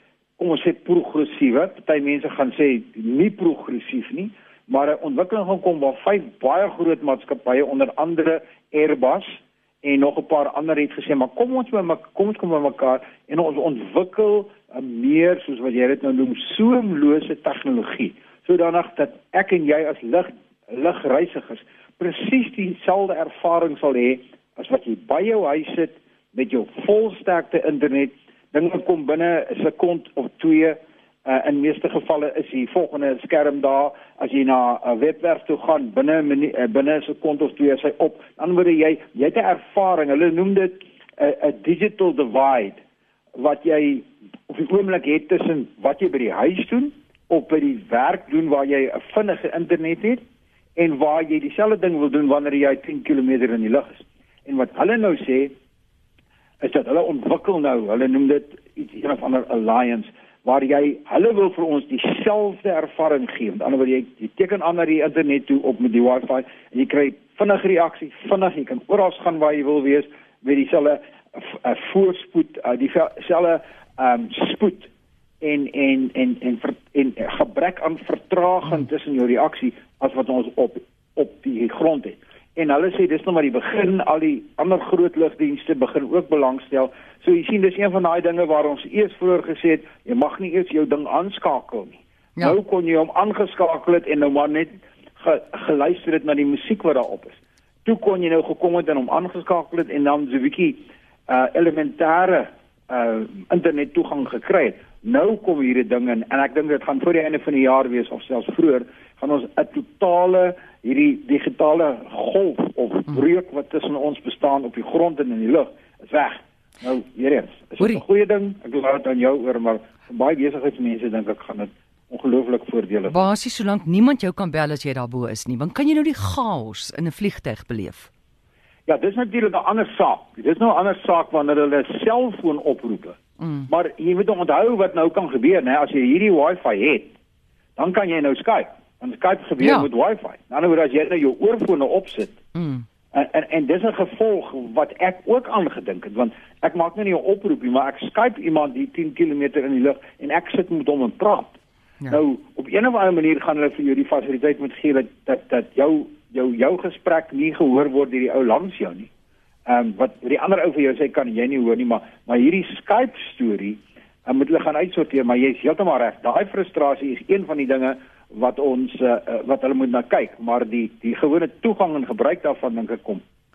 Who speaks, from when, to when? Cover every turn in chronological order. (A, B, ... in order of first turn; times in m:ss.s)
0:00.4-0:42.8 A
0:43.4-0:50.2 A
0:50.8-0:55.5 A
0:56.6-1:14.9 A
1:15.4-2:03.3 A
1:57.8-1:58.0 B
2:03.1-2:08.1 B
2:08.9-2:17.1 A
2:13.4-2:13.7 B
2:17.8-2:22.4 A
2:19.6-2:19.9 B
2:22.6-2:22.8 B
2:23.1-2:39.1 A
2:39.7-2:53.2 A